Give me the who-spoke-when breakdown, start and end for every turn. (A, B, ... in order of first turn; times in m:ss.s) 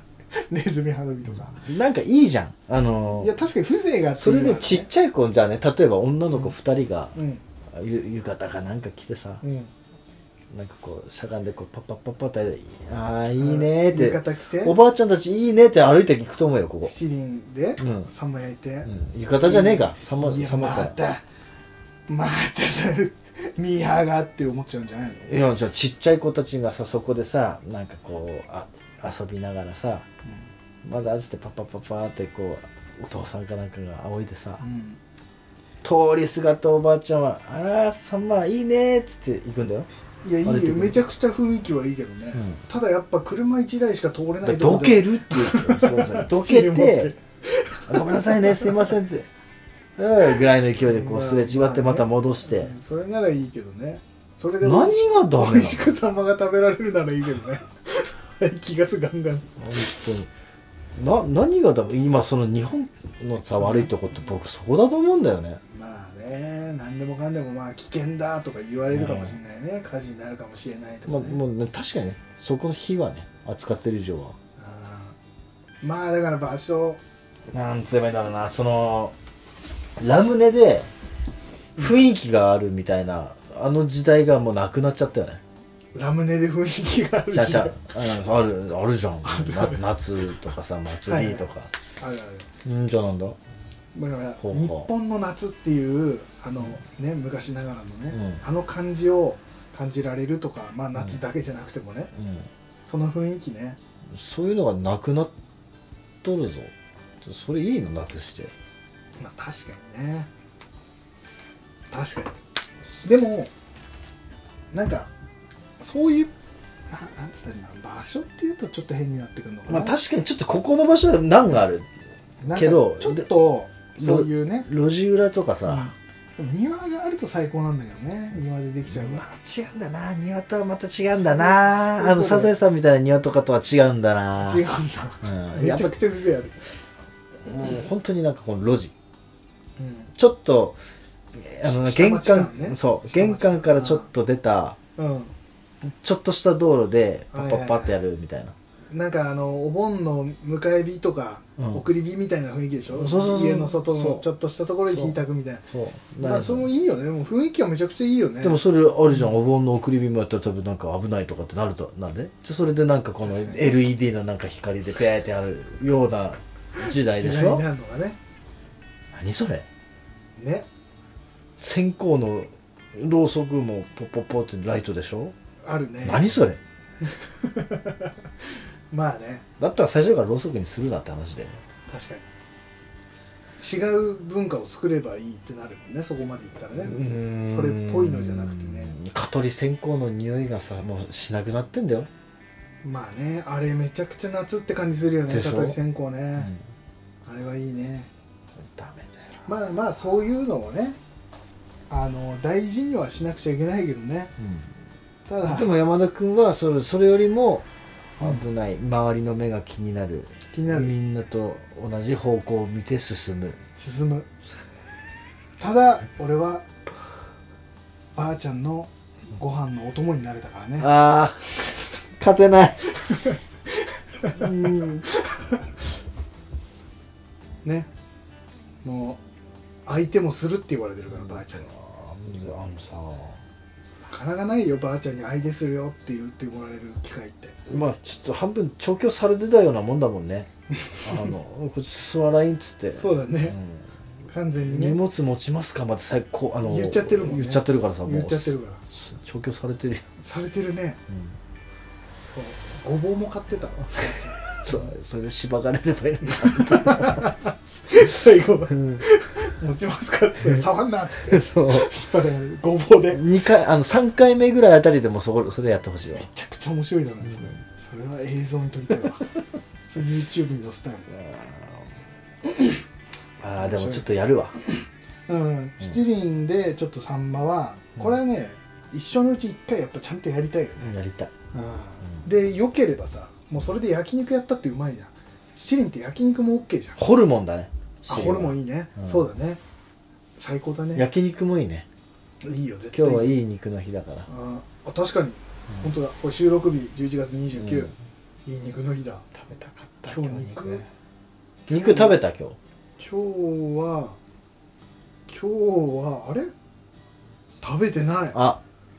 0:00.3-0:01.6 A
0:01.3-0:03.3 B
0:03.1-0:04.9 A
0:04.2-0:07.2 B
0:07.2-0:07.4 A
0:07.7-0:09.4 B
0:09.4-0:09.7 A
0:10.5-0:17.0 B
0:13.4-0:14.8 A
0:16.8-0:21.2 A
0:17.8-0:18.1 B
0:18.8-0:21.0 B
0:22.1-0:25.4 A
0:25.2-0:30.1 B
0:30.8-0:34.6 B
0:34.6-0:35.0 A
0:35.8-0:39.9 B
0:40.2-0:48.9 A
0:40.4-0:41.0 B
0:42.4-0:42.6 B
0:44.4-0:47.1 B
0:47.9-0:49.3 B
0:50.0-0:52.7 B
0:50.8-0:59.6 A
0:54.6-0:55.9 B
0:59.6-1:00.3 B
1:01.0-1:05.6 B
1:03.6-1:03.9 A
1:05.7-1:11.4 A
1:08.9-1:09.4 B
1:11.1-1:14.4 B
1:14.6-1:15.2 A
1:15.8-1:17.0 A
1:17.5-1:19.2 B
1:20.0-1:20.9 B
1:21.8-1:25.4 B
1:26.0-1:27.9 A
1:27.3-1:31.7 B
1:29.2-1:29.9 A
1:31.1-1:31.4 A
1:32.0-1:32.5 A
1:32.6-1:33.4 B
1:33.9-1:42.1 A
1:34.4-1:34.9 B
1:38.1-1:38.4 B
1:42.2-1:42.5 B
1:42.9-1:43.8 A
1:44.1-1:45.3 B
1:46.2-1:48.5 B
1:49.2-1:50.3 A
1:51.9-1:52.4 A
1:53.0-1:53.5 A
1:54.7-1:55.1 A
1:55.8-1:56.3 A
1:56.9-2:00.0 A
1:59.7-2:01.9 B
2:02.4-2:04.7 A
2:02.5-2:03.3 B
2:04.0-2:05.9 B
2:05.7-2:09.2 A
2:08.9-2:14.7 B
2:11.1-2:12.6 A
2:14.4-2:16.6 A
2:15.2-2:16.0 B
2:17.4-2:18.9 B
2:19.8-2:20.1 A
2:20.2-2:20.8 B
2:21.3-2:24.8 B
2:21.6-2:24.1 A
2:25.0-2:25.3 A
2:25.8-2:28.6 B
2:27.3-2:28.0 A
2:28.9-2:35.7 A
2:31.6-2:31.8 B
2:32.9-2:34.3 B
2:34.9-2:35.2 B
2:35.7-2:36.7 B
2:36.2-2:39.3 A
2:38.4-2:47.6 B
2:43.2-2:43.8 A
2:46.8-2:48.2 A
2:49.1-2:49.7 B
2:50.4-2:50.7 A
2:51.6-2:55.4 B
2:55.6-2:56.4 A
2:56.0-2:56.6 B
2:57.0-2:58.1 A
2:58.9-2:59.4 A
2:59.6-3:01.6 B
3:01.9-3:02.3 A
3:03.6-3:09.0 A
3:06.8-3:12.1 B
3:12.8-3:16.6 A
3:15.3-3:15.8 B
3:17.3-3:18.1 A
3:18.6-3:19.5 B
3:19.5-3:21.0 A
3:21.9-3:24.3 A
3:25.3-3:25.7 A
3:25.4-3:27.7 B
3:28.2-3:33.6 B
3:30.5-3:30.9 A
3:33.8-3:34.3 A
3:35.6-3:36.7 A
3:38.2-3:40.9 A
3:40.8-3:43.1 B
3:44.2-3:45.4 A
3:44.3-3:45.1 B
3:47.6-3:47.9 A
3:48.8-3:49.2 A
3:49.9-3:51.7 A
3:51.1-3:53.4 B
3:54.1-3:57.6 A
3:57.7-4:00.5 B
4:00.8-4:01.3 A
4:01.0-4:03.9 B
4:02.9-4:03.6 A
4:04.3-4:05.0 A
4:04.7-4:10.1 B
4:06.6-4:08.8 A
4:10.2-4:11.0 A
4:11.1-4:11.4 B
4:12.3-4:14.9 A
4:14.4-4:17.3 B
4:16.2-4:23.2 A
4:18.7-4:19.0 B
4:21.3-4:21.9 B
4:23.1-4:26.3 B
4:26.2-4:31.2 A
4:31.1-4:31.9 B
4:32.5-4:32.8 A
4:33.4-4:34.6 B
4:33.6-4:34.1 A
4:34.6-4:41.0 A
4:40.8-4:41.3 B
4:41.5-4:47.0 A
4:47.0-4:49.2 B
4:48.1-4:49.6 A
4:50.4-4:51.1 A
4:51.0-4:51.9 B
4:52.4-4:53.4 A
4:52.9-4:54.3 B
4:54.3-4:57.9 A
4:57.6-4:57.9 B
4:58.5-4:59.3 A
4:59.3-5:00.9 B
5:00.1-5:00.8 A
5:01.7-5:02.2 A
5:01.7-5:02.6 B
5:03.0-5:04.2 A
5:05.3-5:06.5 A
5:07.6-5:08.4 A
5:08.3-5:08.6 B